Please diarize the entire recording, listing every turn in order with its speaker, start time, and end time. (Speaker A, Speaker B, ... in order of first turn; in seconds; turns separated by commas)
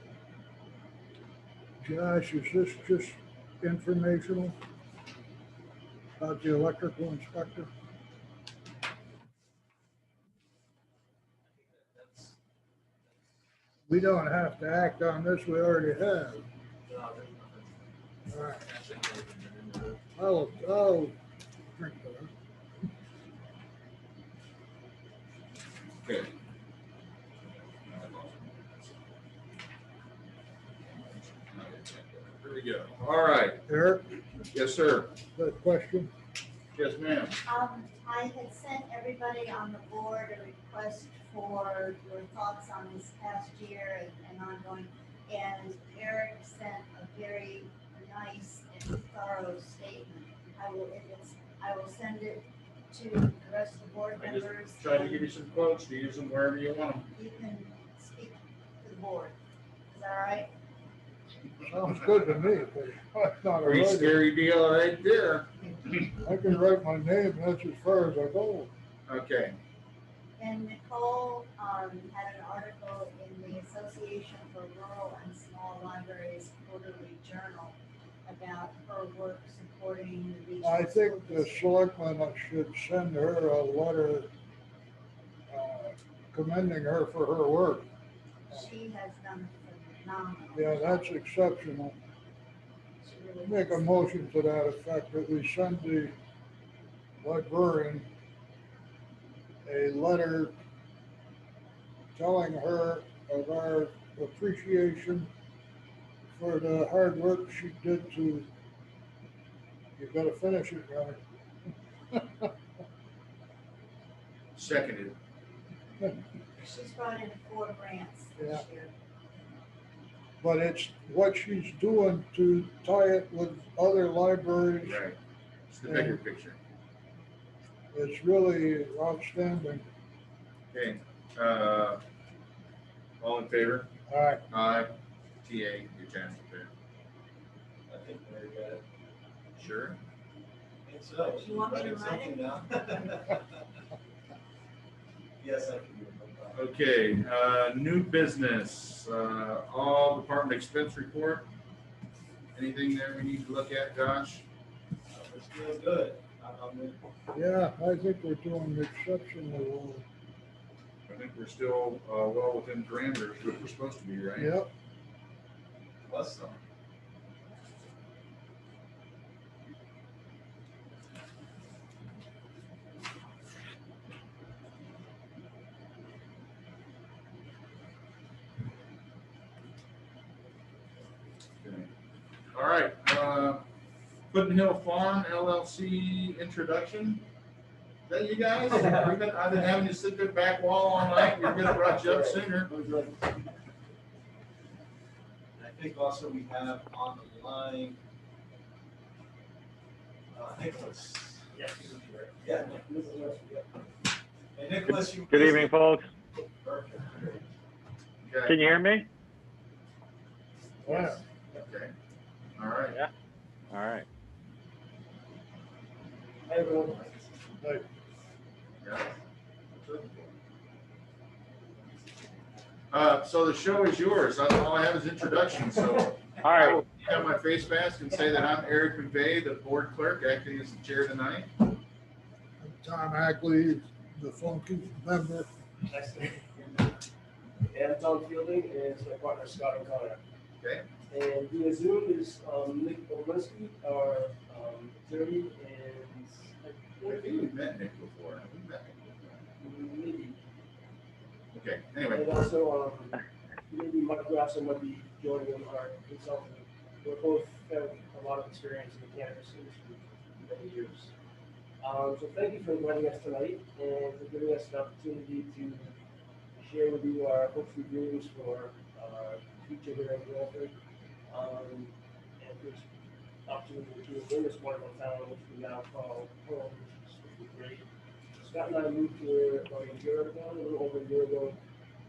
Speaker A: 1.8-4.5, Speaker A: 6.2-7.7, Speaker B: 11.5-12.4, Speaker A: 13.9-16.4, Speaker B: 16.9-17.8, Speaker A: 18.3-18.7, Speaker B: 18.6-20.0, Speaker A: 20.1-21.1, Speaker A: 21.8-22.3, Speaker C: 26.0-26.3, Speaker C: 27.9-28.9, Speaker C: 31.5-33.6, Speaker A: 33.7-34.2, Speaker C: 34.5-35.2, Speaker A: 35.4-36.1, Speaker C: 36.7-37.4, Speaker D: 37.5-55.3, Speaker E: 41.1-42.1, Speaker E: 45.3-46.5, Speaker E: 53.2-53.8, Speaker C: 54.2-57.1, Speaker D: 57.1-59.4, Speaker D: 59.9-60.5, Speaker A: 61.6-64.2, Speaker C: 63.6-66.1, Speaker A: 66.2-68.7, Speaker C: 69.1-69.6, Speaker D: 70.4-81.6, Speaker E: 79.4-79.7, Speaker A: 80.6-84.3, Speaker A: 85.5-87.9, Speaker D: 88.5-91.1, Speaker A: 90.5-92.0, Speaker D: 93.0-94.0, Speaker A: 93.5-96.1, Speaker A: 97.2-98.1, Speaker A: 99.7-100.5, Speaker A: 102.2-105.3, Speaker A: 106.3-108.5, Speaker A: 110.0-111.2, Speaker A: 112.1-112.5, Speaker C: 114.5-115.2, Speaker D: 116.6-118.9, Speaker A: 120.4-125.0, Speaker C: 124.8-125.2, Speaker C: 125.7-126.6, Speaker A: 125.8-126.2, Speaker A: 127.9-129.8, Speaker C: 130.7-132.0, Speaker C: 133.2-133.9, Speaker A: 134.1-134.4, Speaker C: 134.5-134.9, Speaker C: 135.4-136.7, Speaker B: 137.9-138.8, Speaker C: 139.6-140.0, Speaker B: 140.8-143.6, Speaker D: 141.4-142.5, Speaker B: 145.4-146.6, Speaker C: 146.5-151.5, Speaker C: 152.6-154.4, Speaker B: 155.1-157.0, Speaker A: 157.3-160.1, Speaker C: 161.1-164.5, Speaker A: 164.4-164.7, Speaker B: 166.1-166.6, Speaker C: 181.6-181.9, Speaker C: 182.5-183.7, Speaker C: 184.3-187.2, Speaker C: 188.1-192.7, Speaker F: 192.1-193.2, Speaker B: 195.6-198.0, Speaker B: 200.3-202.9, Speaker F: 201.6-203.8, Speaker B: 204.6-205.8, Speaker E: 205.3-206.1, Speaker B: 206.6-207.5, Speaker C: 208.2-208.6, Speaker E: 208.5-209.1, Speaker A: 210.8-211.2, Speaker C: 211.5-211.9, Speaker C: 212.6-213.0, Speaker E: 213.7-214.1, Speaker F: 216.5-217.1, Speaker C: 218.8-219.1, Speaker C: 219.8-220.3, Speaker C: 222.9-231.5, Speaker E: 226.4-226.8, Speaker A: 232.6-235.5, Speaker F: 235.9-236.8, Speaker F: 237.7-240.2, Speaker C: 240.6-240.9, Speaker F: 241.1-247.3, Speaker C: 247.1-249.4, Speaker F: 249.6-250.4, Speaker C: 251.5-252.4, Speaker F: 252.1-261.1, Speaker F: 261.8-265.9, Speaker F: 266.6-270.8, Speaker F: 271.3-272.9, Speaker F: 273.5-277.9, Speaker F: 278.4-281.6